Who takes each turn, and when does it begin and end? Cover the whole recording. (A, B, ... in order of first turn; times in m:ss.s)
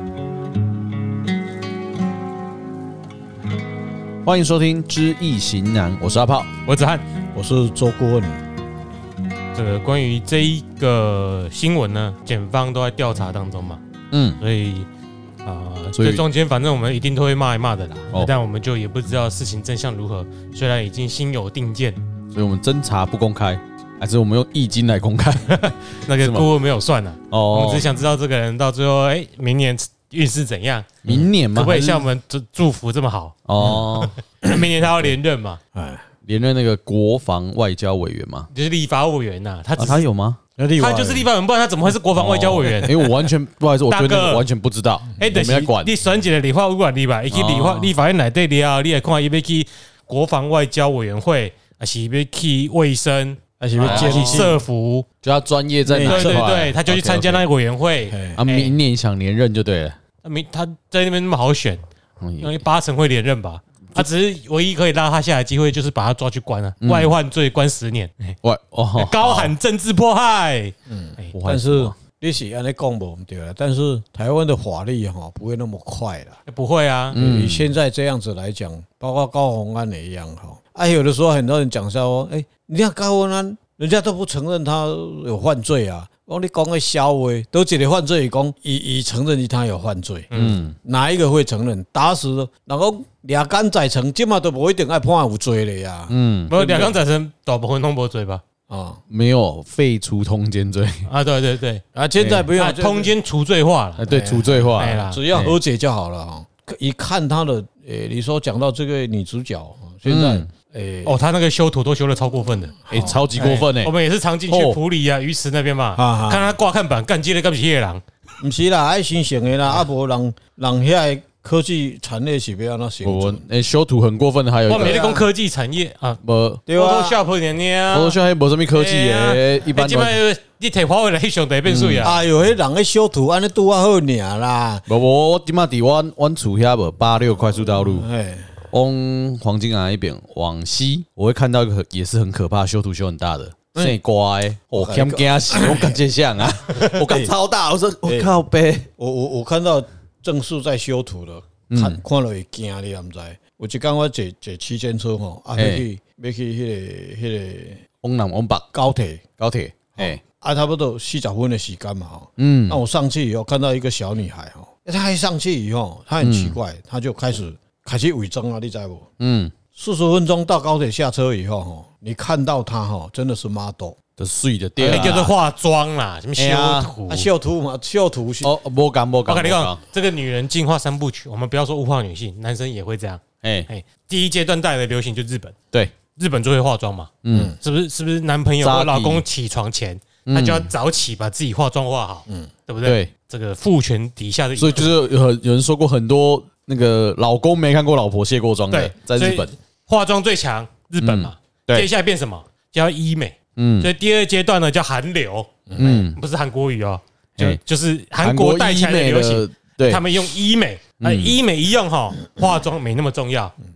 0:04.2-0:06.5 A
0:06.7-0:07.0 B
0:07.3-0:08.4 C
0:09.5-0:13.8 B
0:14.1-0:14.4 A
0:14.4-0:14.9 B
0:15.4-0:22.0 B
0:15.9-0:16.2 A
0:22.3-0:25.6 A
0:25.5-0:30.9 B
0:26.2-0:26.5 A
0:27.3-0:27.9 A
0:31.0-0:32.1 A
0:31.5-0:35.6 B
0:33.5-0:34.2 A
0:35.7-0:36.1 C
0:36.2-0:38.5 A
0:38.5-0:40.0 B
0:39.8-0:40.4 A
0:40.6-0:41.3 C
0:40.8-0:43.0 B
0:42.2-0:45.9 A
0:43.9-0:44.4 B
0:45.2-0:55.1 B
0:47.3-0:47.9 A
0:53.6-0:54.6 C
0:53.8-0:54.6 A
0:55.2-0:57.4 A
0:55.9-0:56.5 C
0:56.0-0:58.7 B
0:58.1-0:58.4 C
0:58.4-1:00.0 A
1:00.2-1:01.8 B
1:02.2-1:02.6 A
1:02.4-1:08.4 B
1:06.8-1:07.1 A
1:08.4-1:09.5 A
1:09.0-1:11.3 B
1:10.9-1:16.4 C
1:11.3-1:12.0 A
1:16.5-1:17.2 B
1:17.1-1:17.7 A
1:17.2-1:37.0 C
1:30.3-1:30.6 B
1:30.3-1:30.8 A
1:36.1-1:36.5 A
1:36.5-1:38.4 B
1:38.7-1:39.0 C
1:39.1-1:41.1 A
1:41.1-1:41.8 B
1:42.0-1:43.1 C
1:42.2-1:42.5 A
1:42.5-1:44.0 B
1:44.0-1:45.6 A
1:44.1-1:51.2 C
1:44.8-1:45.2 B
1:50.0-1:50.5 A
1:51.0-1:52.8 B
1:52.8-1:53.2 C
1:52.9-1:53.9 A
1:53.4-1:58.0 B
1:54.5-1:54.8 A
1:56.0-1:56.6 C
1:58.4-2:03.4 C
2:03.0-2:05.0 A
2:04.7-2:08.2 B
2:04.7-2:05.3 C
2:06.2-2:06.6 A
2:06.7-2:07.2 C
2:07.9-2:10.2 A
2:08.7-2:12.2 B
2:11.7-2:12.1 A
2:12.0-2:14.9 C
2:14.9-2:18.1 A
2:17.7-2:18.5 C
2:18.7-2:28.9 A
2:24.8-2:26.0 C
2:27.0-2:27.3 C
2:28.0-2:28.3 C
2:29.0-2:37.8 C
2:31.7-2:32.0 A
2:35.6-2:35.8 A
2:38.0-2:38.6 A
2:38.7-2:39.2 C
2:39.4-2:40.2 A
2:40.0-2:49.1 C
2:42.4-2:42.8 A
2:46.2-2:46.6 A
2:49.2-2:49.5 A
2:49.7-2:54.0 C
2:54.2-2:55.3 A
2:54.8-2:55.3 C
2:54.9-2:57.3 B
2:56.4-2:56.9 A
2:57.1-2:58.6 C
2:58.4-2:59.8 A
2:59.3-3:05.6 B
3:03.4-3:03.7 A
3:06.2-3:15.0 B
3:07.2-3:07.6 A
3:08.6-3:09.2 A
3:10.3-3:10.7 A
3:12.8-3:13.1 A
3:14.6-3:19.5 A
3:18.7-3:33.5 B
3:21.0-3:21.9 A
3:23.6-3:23.9 A
3:25.7-3:26.1 C
3:25.8-3:26.2 A
3:28.2-3:30.1 A
3:31.0-3:31.4 A